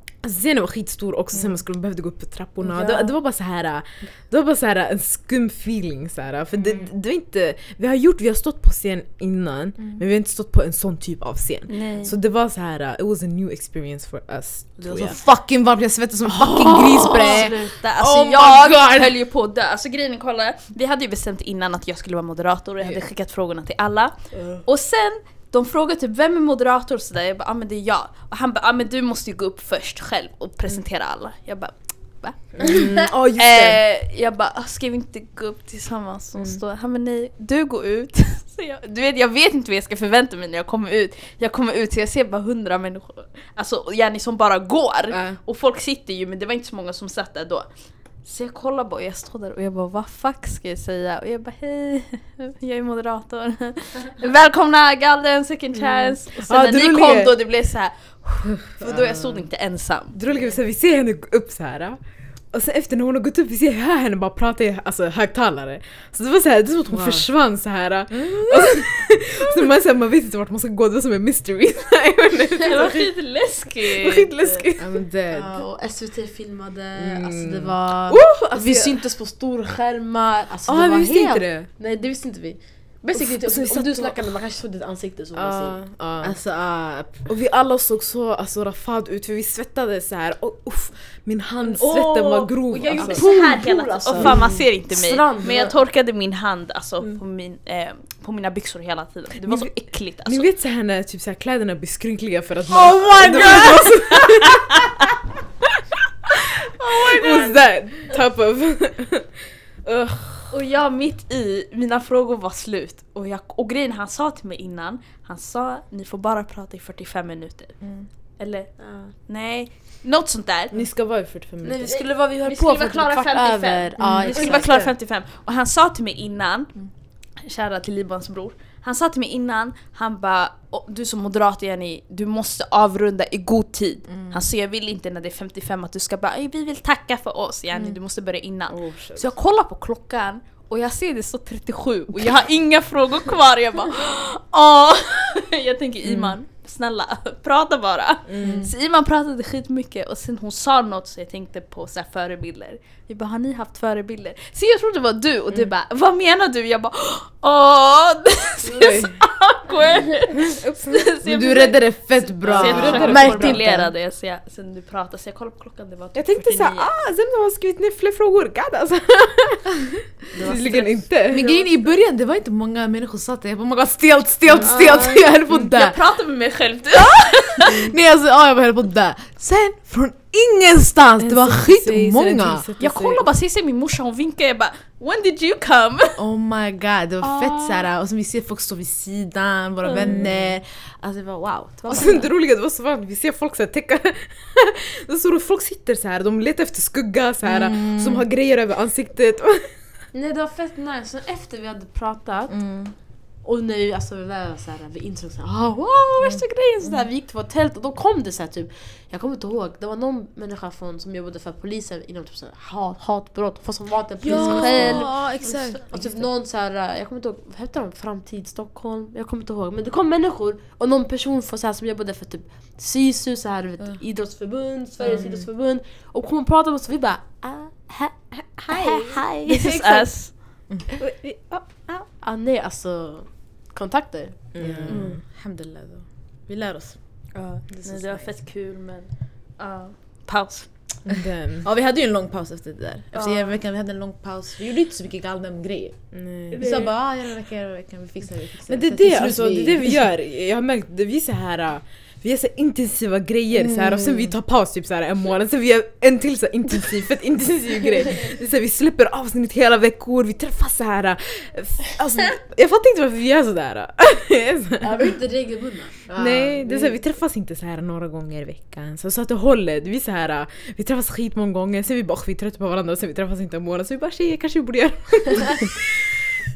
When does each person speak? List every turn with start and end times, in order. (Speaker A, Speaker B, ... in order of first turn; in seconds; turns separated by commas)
Speaker A: 0.1-15.2, Speaker B: 2.6-3.1, Speaker C: 6.5-6.9, Speaker B: 11.7-12.1, Speaker C: 14.8-17.7, Speaker B: 17.2-60.1, Speaker D: 17.2-17.8, Speaker A: 32.6-33.8, Speaker A: 56.0-57.3, Speaker A: 58.7-59.2, Speaker A: 60.1-75.0, Speaker D: 60.3-60.5, Speaker C: 66.9-67.3, Speaker B: 72.7-74.7, Speaker C: 74.8-75.6, Speaker D: 75.3-85.8, Speaker A: 77.0-79.0, Speaker A: 80.7-81.7, Speaker A: 83.2-84.3, Speaker A: 85.3-93.3, Speaker C: 86.2-87.3, Speaker B: 91.7-100.5, Speaker D: 92.9-95.8, Speaker A: 94.1-94.5, Speaker A: 99.4-104.8, Speaker D: 102.7-104.0, Speaker B: 103.3-103.8, Speaker A: 106.3-110.5, Speaker B: 106.8-107.6, Speaker B: 110.5-120.8, Speaker C: 117.8-118.1, Speaker D: 118.8-119.1, Speaker A: 120.7-122.1, Speaker D: 121.6-124.9, Speaker B: 122.4-166.9, Speaker C: 124.0-124.5, Speaker A: 124.1-124.6, Speaker A: 138.7-139.3, Speaker A: 148.3-148.7, Speaker C: 148.4-148.7, Speaker A: 158.8-159.1, Speaker A: 160.5-161.1, Speaker C: 161.2-163.8, Speaker A: 162.5-163.6, Speaker D: 162.6-163.9, Speaker A: 166.2-171.4, Speaker B: 170.3-171.6, Speaker C: 171.3-176.0, Speaker D: 171.4-171.9, Speaker A: 174.5-175.2, Speaker B: 174.6-177.9, Speaker C: 177.7-182.7, Speaker A: 181.2-183.2, Speaker B: 182.8-186.2, Speaker C: 186.2-192.1, Speaker B: 187.2-187.8, Speaker B: 189.8-190.2, Speaker A: 189.9-190.6, Speaker B: 191.8-192.2, Speaker A: 191.9-199.8, Speaker C: 197.4-198.2, Speaker D: 200.1-229.2, Speaker C: 202.5-202.9, Speaker C: 206.2-206.9, Speaker C: 214.2-216.2, Speaker B: 214.3-215.2, Speaker A: 214.3-215.1, Speaker A: 225.1-225.4, Speaker B: 228.7-230.7, Speaker A: 229.5-232.1, Speaker D: 232.2-234.5, Speaker A: 234.5-235.2, Speaker C: 234.6-238.4, Speaker B: 234.9-235.2, Speaker B: 237.3-241.2, Speaker A: 241.1-241.7, Speaker C: 241.6-250.1, Speaker B: 243.1-243.6, Speaker A: 246.1-246.6, Speaker B: 246.6-246.9, Speaker A: 248.7-265.0, Speaker C: 253.5-254.3, Speaker D: 264.8-266.9, Speaker C: 266.1-266.7, Speaker A: 266.1-276.2